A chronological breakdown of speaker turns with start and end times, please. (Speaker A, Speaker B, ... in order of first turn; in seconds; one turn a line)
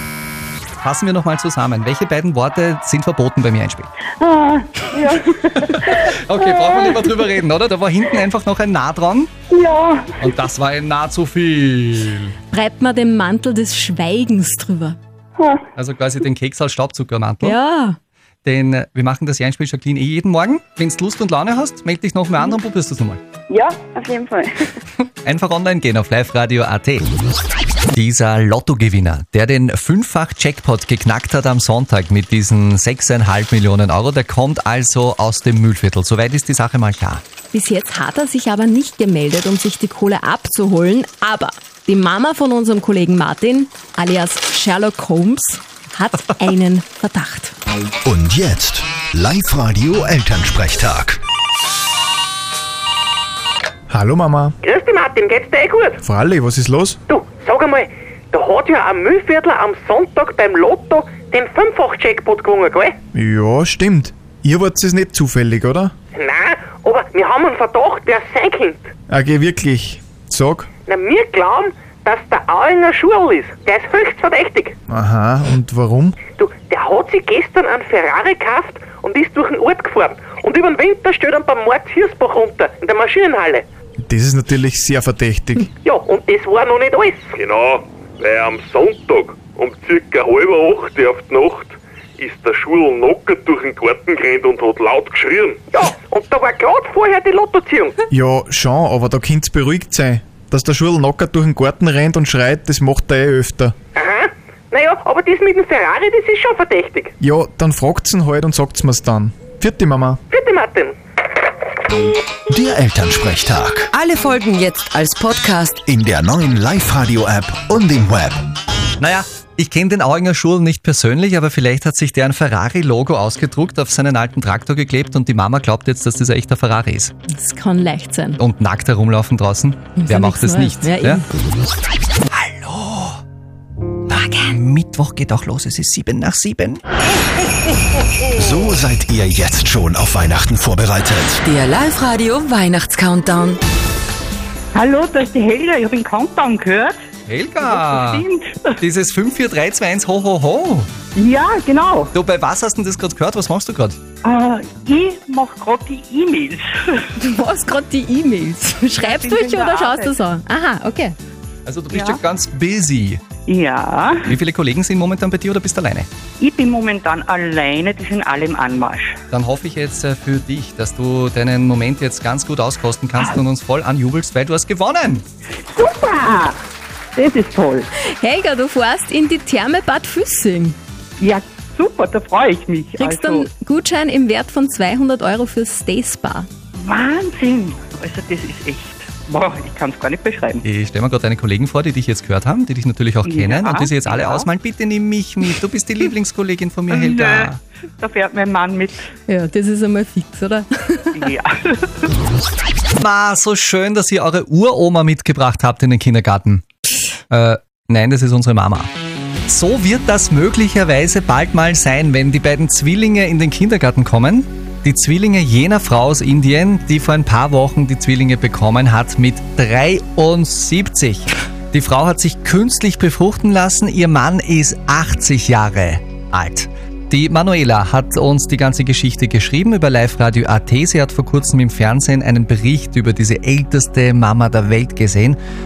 Speaker A: 0.8-3.9
Speaker B: 4.2-5.2
Speaker A: 5.4-9.3
Speaker B: 9.5-10.1
Speaker A: 10.2-12.3
Speaker C: 12.5-15.0
Speaker A: 15.8-17.6
Speaker C: 17.4-18.0
Speaker A: 18.4-23.2
Speaker B: 23.5-24.5
Speaker A: 25.2-27.1
Speaker A: 27.9-37.2
Speaker C: 37.5-47.5
Speaker D: 48.0-51.2
Speaker E: 53.9-54.5
Speaker F: 54.6-56.0
Speaker E: 56.0-57.0
Speaker F: 57.1-63.0
Speaker E: 63.1-65.9
Speaker F: 66.1-68.9
Speaker E: 69.1-70.7
Speaker F: 70.8-74.8
Speaker E: 74.9-76.2
Speaker F: 76.3-83.7
Speaker E: 84.1-85.7
Speaker F: 85.8-87.3
Speaker G: 87.4-95.6
Speaker F: 95.7-98.0
Speaker E: 98.1-103.7
Speaker F: 103.9-107.1
Speaker E: 107.2-110.2
Speaker F: 110.3-111.0
Speaker D: 112.5-113.9
Speaker H: 113.9-115.8
Speaker D: 115.9-118.5
Speaker A: 119.0-127.1
Speaker C: 127.3-128.4
Speaker A: 128.4-131.2
Speaker C: 130.0-131.3
Speaker A: 132.3-133.2
Speaker A: 134.1-136.8
Speaker D: 138.3-141.4
Speaker H: 141.4-143.6
Speaker I: 144.7-146.9
Speaker A: 147.3-148.2
Speaker I: 147.6-148.8
Speaker A: 148.8-150.9
Speaker I: 151.1-152.1
Speaker A: 152.1-154.0
Speaker I: 154.2-157.1
Speaker C: 157.2-161.2
Speaker I: 159.0-160.2
Speaker A: 161.7-163.2
Speaker I: 161.9-162.2
Speaker I: 163.4-164.4
Speaker A: 164.3-166.1
Speaker I: 166.4-169.1
Speaker A: 169.3-175.2
Speaker I: 175.7-176.6
Speaker I: 177.1-177.8
Speaker C: 178.0-180.8
Speaker I: 181.2-183.5
Speaker C: 183.0-186.5
Speaker I: 186.8-190.6
Speaker A: 190.6-197.6
Speaker I: 193.2-194.5
Speaker I: 196.9-199.1
Speaker C: 199.3-201.3
Speaker I: 201.1-202.1
Speaker A: 203.0-206.6
Speaker A: 207.3-208.9
Speaker A: 209.5-235.4